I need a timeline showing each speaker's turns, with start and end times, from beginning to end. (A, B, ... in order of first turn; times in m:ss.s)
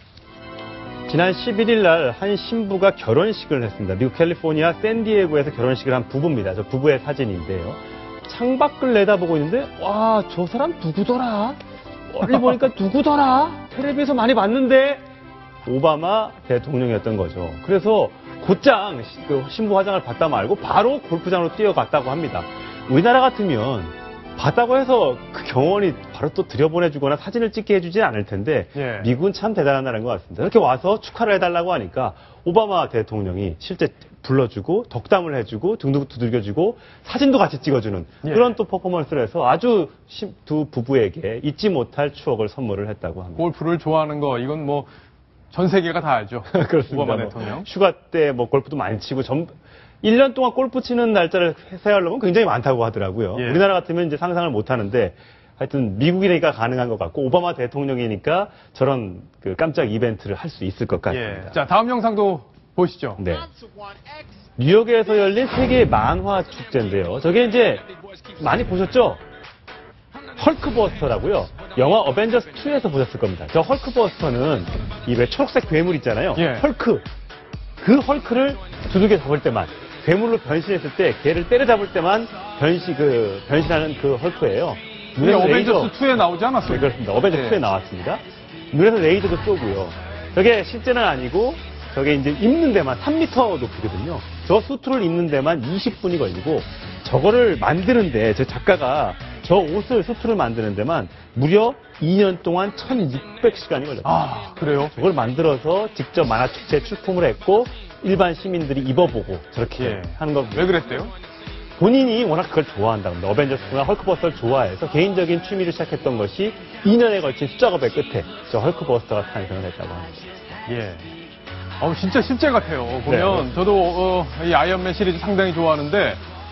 0:01.1-0:11.6 A
0:12.1-0:15.1 A
0:15.6-0:43.4 A
0:28.8-0:29.1 B
0:38.2-0:38.5 B
0:43.4-0:44.9 B
0:45.5-0:47.7 B
0:46.5-1:01.6 A
0:53.4-0:53.6 B
1:01.1-1:03.2 B
1:03.2-1:03.5 A
1:04.6-1:07.9 A
1:08.4-1:09.2 A
1:10.4-1:17.1 A
1:16.4-1:16.7 B
1:17.8-1:26.0 A
1:25.2-1:27.7 B
1:26.6-1:50.8 A
1:44.0-1:45.0 B
1:49.8-1:51.1 B
1:51.8-2:00.3 A
2:00.7-2:01.1 B
2:01.8-2:06.2 B
2:03.0-2:03.5 A